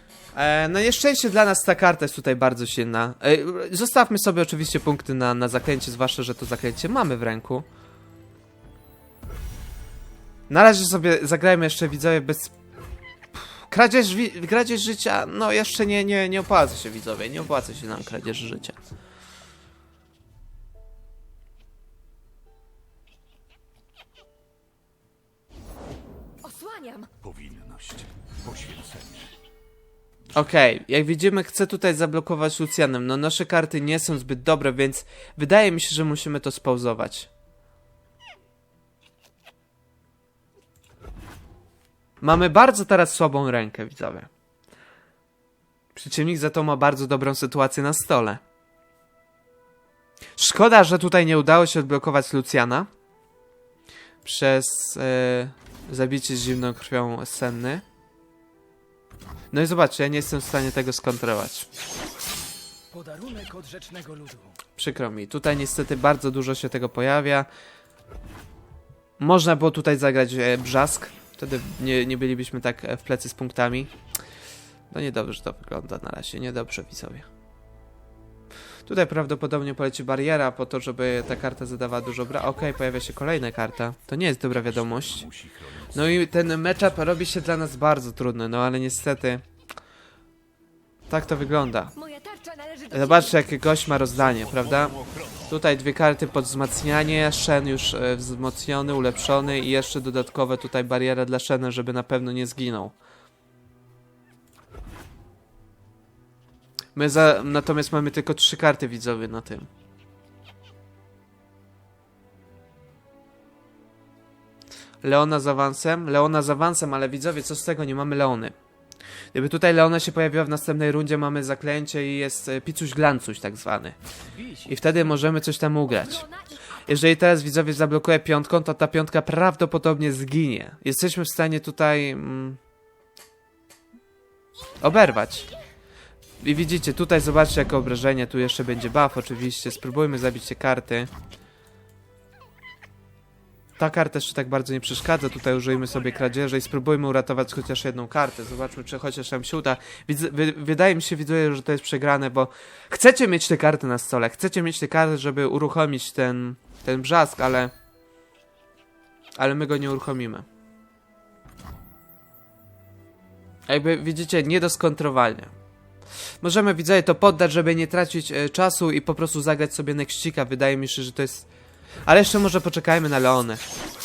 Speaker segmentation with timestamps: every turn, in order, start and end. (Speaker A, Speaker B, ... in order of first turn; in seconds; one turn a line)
Speaker A: 0.3-7.7
Speaker A: 10.5-12.5
Speaker A: 13.4-18.8
Speaker B: 26.4-27.1
Speaker C: 27.2-29.3
Speaker A: 30.3-37.3
Speaker A: 42.2-44.3
Speaker A: 46.0-48.4
Speaker A: 50.4-52.9
Speaker A: 54.2-57.8
Speaker A: 59.5-61.7
Speaker D: 62.9-64.6
Speaker A: 64.8-67.5
Speaker A: 69.2-73.9
Speaker A: 74.9-77.3
Speaker A: 78.9-85.3
Speaker B: 82.4-83.7
Speaker C: 84.6-87.0
Speaker A: 85.9-89.4
Speaker A: 91.1-91.9
Speaker B: 92.0-93.6
Speaker A: 92.9-94.9
Speaker C: 93.9-95.6
Speaker A: 95.5-102.9
Speaker A: 107.0-109.7
Speaker A: 115.0-118.5
Speaker A: 119.3-124.0
Speaker D: 124.3-125.2
Speaker A: 124.7-126.2
Speaker B: 125.9-126.8
Speaker A: 126.9-132.6
Speaker A: 134.8-135.5
Speaker A: 136.4-141.1
Speaker A: 143.8-157.7
Speaker A: 159.4-160.5
Speaker A: 163.7-165.5
Speaker A: 166.4-171.5
Speaker A: 172.1-173.6